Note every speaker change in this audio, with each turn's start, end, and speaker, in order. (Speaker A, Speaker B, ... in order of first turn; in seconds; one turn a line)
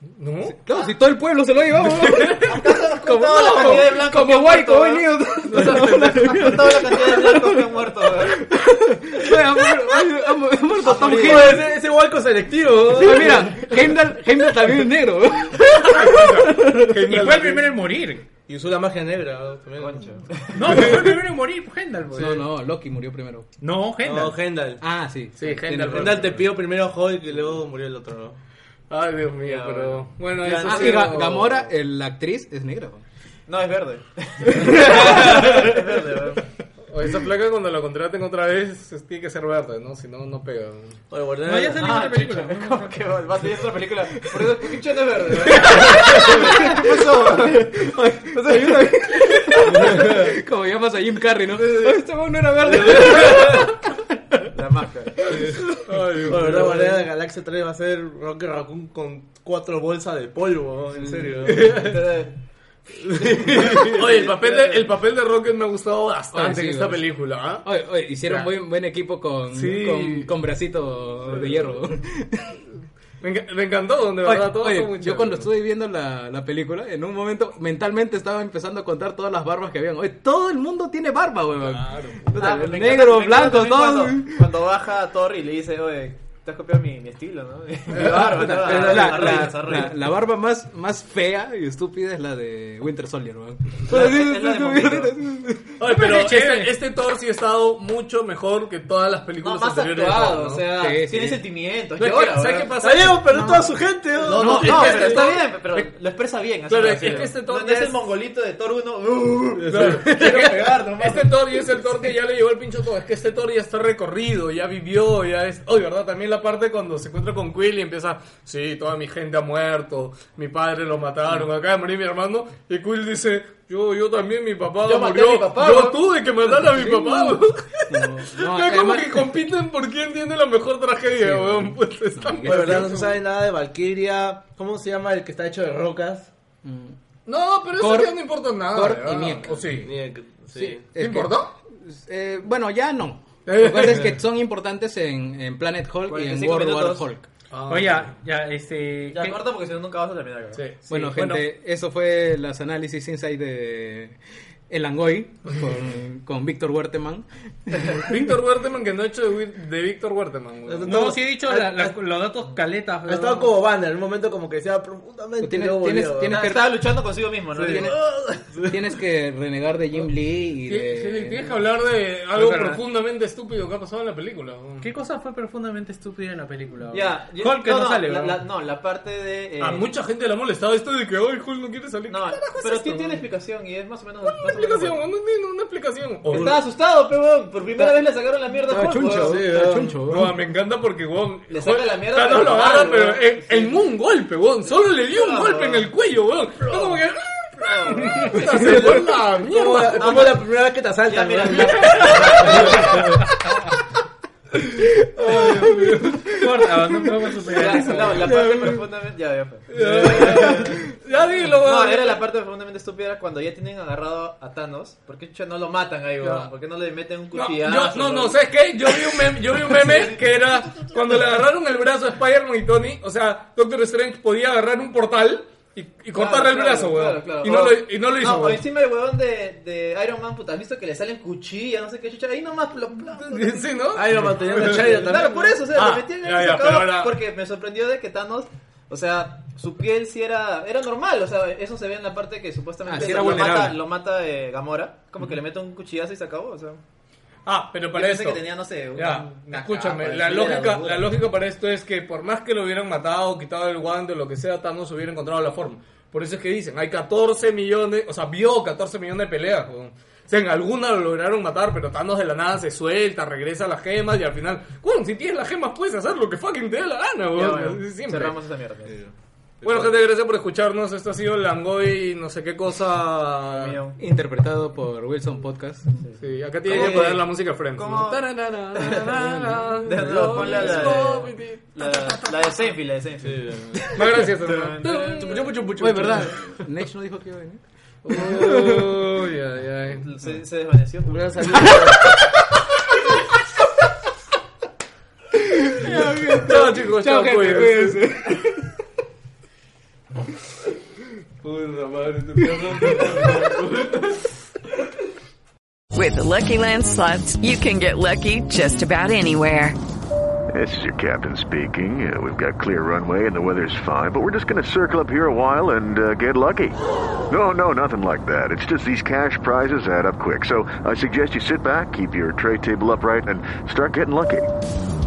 Speaker A: 0.2-0.6
Speaker B: 0.6-11.7
Speaker A: 1.7-2.8
Speaker C: 2.4-8.5
Speaker A: 3.5-3.9
Speaker C: 10.8-11.6
Speaker D: 10.9-13.7
Speaker B: 12.9-17.2
Speaker A: 15.9-17.6
Speaker E: 17.1-18.2
Speaker D: 18.5-20.1
Speaker C: 19.8-20.9
Speaker E: 20.5-22.4
Speaker B: 22.1-23.5
Speaker E: 23.6-24.4
Speaker D: 24.0-24.8
Speaker B: 24.8-26.4
Speaker A: 25.4-26.4
Speaker D: 25.9-28.4
Speaker A: 28.9-31.7
Speaker C: 29.4-31.0
Speaker D: 30.4-30.7
Speaker B: 30.6-33.0
Speaker C: 33.5-36.5
Speaker B: 34.5-35.9
Speaker A: 36.9-41.0
Speaker D: 41.1-41.9
Speaker E: 41.4-43.0
Speaker C: 41.7-49.6
Speaker B: 44.2-44.5
Speaker B: 45.5-54.0
Speaker D: 52.7-53.5
Speaker C: 54.5-55.4
Speaker A: 55.8-56.8
Speaker D: 56.2-61.9
Speaker B: 56.3-56.6
Speaker B: 61.1-61.5
Speaker A: 61.5-62.0
Speaker C: 61.7-62.4
Speaker D: 62.9-64.3
Speaker A: 63.6-67.7
Speaker C: 64.4-64.8
Speaker B: 66.3-72.6
Speaker A: 68.2-68.5
Speaker A: 69.5-70.3
Speaker A: 73.2-75.5
Speaker B: 74.2-84.4
Speaker A: 81.7-82.5
Speaker C: 82.3-90.0
Speaker B: 87.9-95.9
Speaker A: 88.0-88.4
Speaker D: 88.1-89.5
Speaker C: 93.8-95.1
Speaker A: 95.8-100.6
Speaker E: 95.8-96.7
Speaker C: 99.4-111.8
Speaker B: 100.8-101.4
Speaker A: 102.0-103.2
Speaker D: 102.8-105.3
Speaker B: 104.3-105.0
Speaker A: 104.4-105.9
Speaker A: 106.7-108.0
Speaker D: 106.9-107.2
Speaker D: 109.6-110.0
Speaker A: 109.7-133.1
Speaker C: 124.8-126.0
Speaker B: 126.5-129.4
Speaker B: 131.2-133.1
Speaker D: 132.4-136.3
Speaker B: 136.6-137.0
Speaker A: 137.3-139.9
Speaker B: 137.7-139.7
Speaker D: 139.8-140.8
Speaker B: 140.5-147.3
Speaker A: 140.9-141.5
Speaker A: 143.4-144.2
Speaker C: 146.1-147.0
Speaker A: 147.5-148.1
Speaker E: 147.7-149.4
Speaker C: 149.1-150.6
Speaker A: 150.5-151.4
Speaker B: 150.9-154.2
Speaker B: 154.7-158.1
Speaker C: 157.8-158.0
Speaker A: 158.1-161.1
Speaker D: 160.7-162.0
Speaker E: 160.9-163.5
Speaker D: 163.0-166.4
Speaker B: 165.4-166.8
Speaker C: 166.2-167.9
Speaker D: 167.5-168.8
Speaker B: 167.7-167.9
Speaker B: 168.7-171.5
Speaker A: 170.7-174.9
Speaker E: 172.3-172.8
Speaker E: 174.8-178.4
Speaker C: 176.9-179.9
Speaker A: 179.6-183.2
Speaker C: 182.1-185.1
Speaker A: 184.2-186.5
Speaker D: 186.3-186.6
Speaker C: 186.3-189.4
Speaker B: 188.7-190.3
Speaker D: 188.7-190.0
Speaker A: 190.0-200.3
Speaker C: 191.5-193.8
Speaker C: 194.9-195.9
Speaker C: 196.6-197.0
Speaker C: 197.6-198.6
Speaker D: 198.4-203.2
Speaker C: 200.0-203.0
Speaker A: 201.4-202.8
Speaker B: 205.2-206.5
Speaker E: 206.2-208.3
Speaker C: 207.5-209.7
Speaker B: 208.1-208.8
Speaker D: 209.7-210.6
Speaker A: 209.7-212.2
Speaker B: 210.2-210.8
Speaker C: 210.3-210.9
Speaker C: 211.6-218.4
Speaker A: 216.2-216.5
Speaker A: 217.3-228.6
Speaker C: 219.7-220.2
Speaker C: 226.1-233.8
Speaker A: 233.2-237.1
Speaker D: 233.9-235.7
Speaker C: 234.5-246.8
Speaker B: 242.8-243.8
Speaker A: 243.0-243.5
Speaker A: 247.4-268.4
Speaker C: 247.9-251.1
Speaker C: 267.3-269.0
Speaker D: 268.9-269.9
Speaker A: 269.6-273.8
Speaker C: 273.5-274.0
Speaker B: 274.0-276.0
Speaker C: 276.0-279.1
Speaker A: 276.2-282.6
Speaker B: 276.7-277.1
Speaker B: 278.9-280.6
Speaker C: 279.8-285.5
Speaker D: 280.6-281.1
Speaker D: 283.2-283.9
Speaker A: 283.9-286.4
Speaker D: 285.2-286.3
Speaker B: 285.8-289.0
Speaker A: 288.0-290.1
Speaker C: 289.9-291.7
Speaker D: 291.1-292.1
Speaker B: 291.6-292.3
Speaker B: 295.3-298.8
Speaker A: 296.4-298.0
Speaker D: 301.4-304.2
Speaker B: 302.5-303.5
Speaker F: 305.9-309.8
Speaker G: 310.5-316.8
Speaker G: 317.3-324.4